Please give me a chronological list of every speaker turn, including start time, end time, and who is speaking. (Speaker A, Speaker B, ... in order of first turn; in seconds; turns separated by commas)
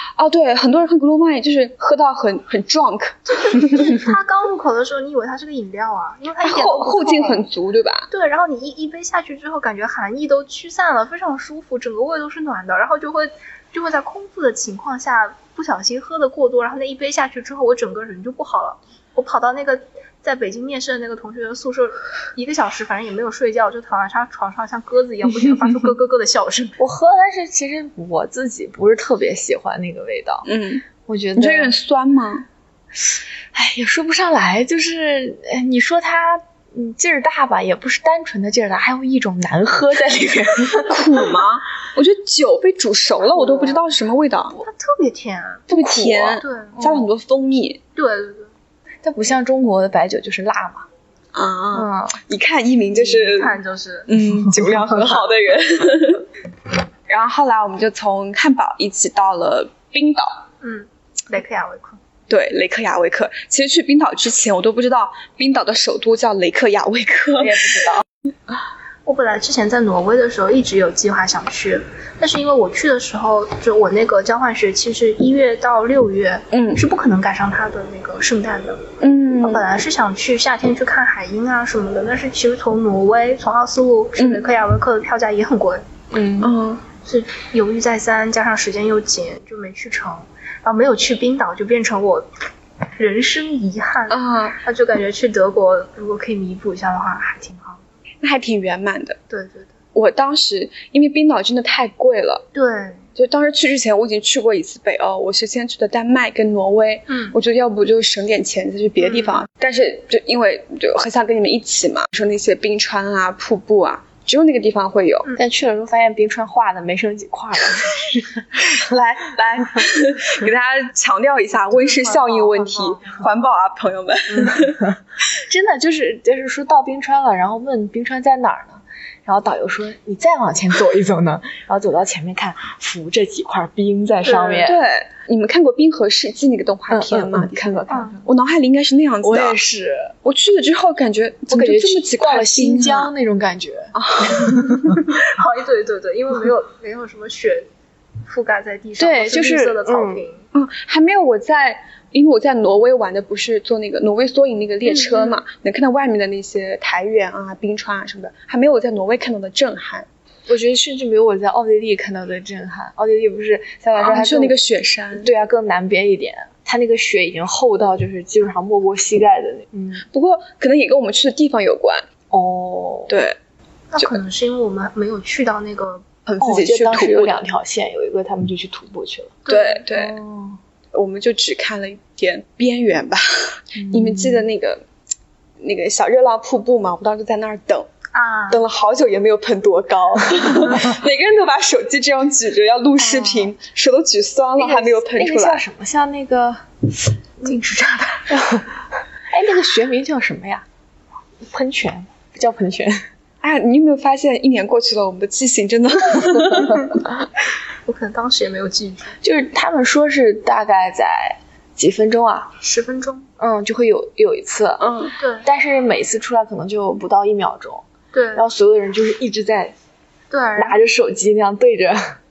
Speaker A: 0.2-4.0, Speaker B: 3.3-7.5, Speaker A: 6.4-8.1, Speaker B: 8.1-26.8, Speaker C: 26.8-30.5, Speaker A: 30.5-30.8, Speaker C: 31.1-31.8, Speaker A: 31.4-32.5, Speaker C: 33.5-41.2, Speaker A: 40.9-44.5, Speaker B: 43.4-43.8, Speaker B: 44.5-45.7, Speaker C: 45.7-47.1, Speaker A: 45.7-47.8, Speaker B: 46.4-46.8, Speaker B: 48.0-48.5, Speaker C: 49.0-50.9, Speaker A: 51.4-53.5, Speaker C: 51.7-52.2, Speaker B: 52.9-54.1, Speaker A: 54.1-56.2, Speaker A: 57.1-60.3, Speaker B: 60.6-62.0, Speaker A: 62.3-67.5, Speaker C: 67.4-68.0, Speaker B: 69.1-85.9, Speaker A: 79.0-79.6, Speaker C: 86.1-86.5, Speaker A: 86.4-86.8, Speaker B: 87.0-92.3, Speaker B: 93.0-97.8, Speaker A: 94.1-94.5, Speaker A: 98.2-99.2, Speaker B: 99.3-99.7, Speaker A: 100.0-102.4, Speaker B: 102.5-103.1, Speaker A: 103.2-115.2, Speaker B: 107.1-107.3, Speaker B: 109.0-109.4, Speaker C: 115.4-118.5, Speaker A: 118.9-124.6, Speaker B: 121.7-123.2, Speaker C: 124.3-134.8, Speaker B: 134.3-134.6, Speaker A: 134.7-139.6, Speaker C: 136.9-138.2, Speaker B: 137.9-138.2, Speaker C: 139.2-140.2, Speaker A: 140.3-143.1, Speaker C: 141.5-145.0, Speaker B: 145.1-147.7, Speaker B: 148.3-150.4, Speaker C: 149.0-150.2, Speaker A: 150.6-160.1, Speaker B: 154.9-155.4, Speaker C: 160.5-164.6, Speaker A: 164.0-165.2, Speaker C: 165.2-170.1, Speaker A: 170.1-172.0, Speaker C: 172.3-173.1, Speaker B: 173.9-176.1, Speaker A: 176.3-177.3, Speaker C: 176.4-179.4, Speaker B: 179.5-179.8, Speaker A: 179.5-180.1, Speaker C: 179.9-180.6, Speaker A: 180.9-183.2, Speaker C: 183.8-184.5, Speaker A: 183.9-184.8, Speaker A: 185.6-187.8, Speaker B: 188.1-188.7, Speaker A: 188.5-195.6, Speaker C: 193.0-193.5, Speaker C: 194.6-197.7, Speaker B: 197.4-198.2, Speaker C: 198.3-198.8, Speaker C: 199.3-200.7, Speaker C: 201.4-203.0, Speaker A: 203.4-206.6, Speaker B: 207.8-209.2, Speaker C: 209.2-212.5, Speaker B: 212.6-213.3, Speaker C: 213.4-214.9, Speaker B: 215.2-215.5, Speaker C: 215.4-219.8, Speaker B: 218.1-218.5, Speaker B: 220.3-220.8, Speaker C: 220.6-222.2